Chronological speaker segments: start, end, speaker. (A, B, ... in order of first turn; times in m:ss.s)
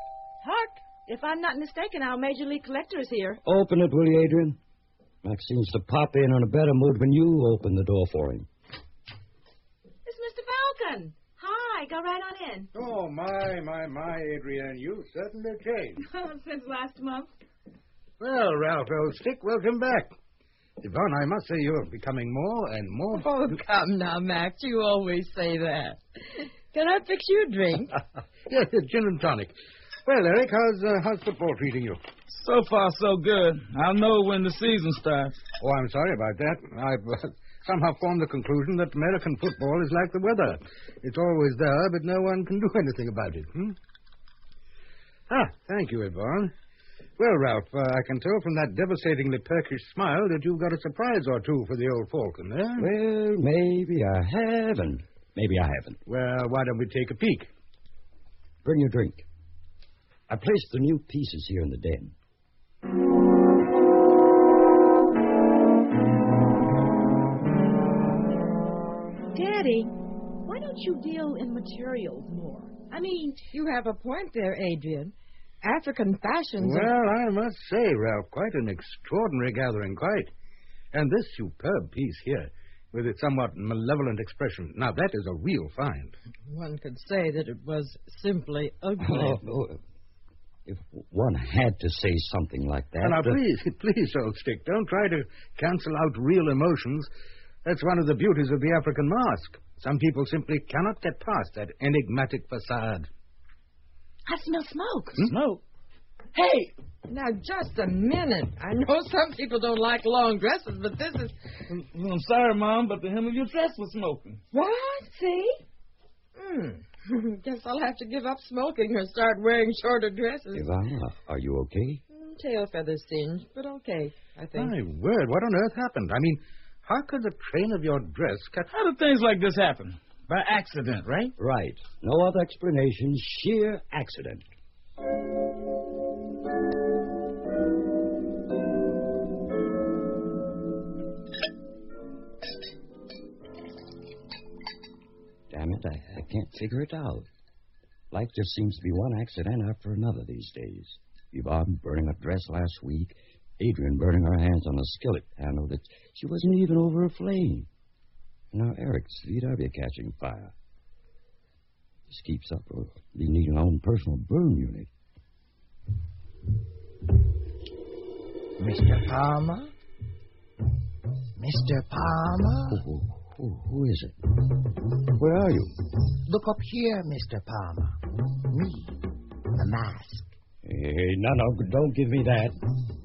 0:00.4-0:03.4 A
0:03.4-0:04.6 B
0:05.2-0:08.5 B
0:10.0-0:12.7 A
0:12.7-0:16.0 C
0:16.1-0:17.3 A
0:18.2-0:20.1 C
0:20.8-0:23.6 C
0:23.1-0:26.0 D
0:26.7-0:28.0 D
0:28.5-0:29.5 C
0:30.0-0:32.0 C
0:32.3-0:35.4 E
0:35.6-0:43.8 C
0:45.3-0:46.5 C
0:47.2-0:52.9 C
0:52.8-0:56.0 B
0:56.0-0:57.5 C
0:58.6-0:59.2 B
1:00.3-1:02.1 B
1:09.3-1:09.9 A
1:10.4-1:13.5 A
1:13.5-1:16.9 D
1:16.6-1:20.3 C
1:20.9-1:26.2 C
1:26.5-1:29.4 D
1:29.0-1:29.8 B
1:30.6-1:33.4 B
1:33.0-1:37.1 C
1:37.6-1:43.1 C
1:44.3-1:45.2 A
1:45.2-1:45.6 E
1:47.1-1:51.4 D
1:51.7-1:54.4 E
1:54.5-1:55.6 D
1:56.4-2:00.6 D
2:00.5-2:02.0 B
2:02.1-2:04.7 D
2:04.5-2:08.7 C
2:08.7-2:11.3 E
2:11.4-2:14.4 B
2:25.5-2:27.3 B
2:28.1-2:37.7 B
2:38.5-2:40.5 B
2:42.1-2:44.9 B
2:48.6-2:49.7 F
2:51.4-2:52.8 F
2:52.7-2:54.2 B
2:55.1-2:55.8 B
2:56.2-3:00.3 F
3:00.6-3:02.6 B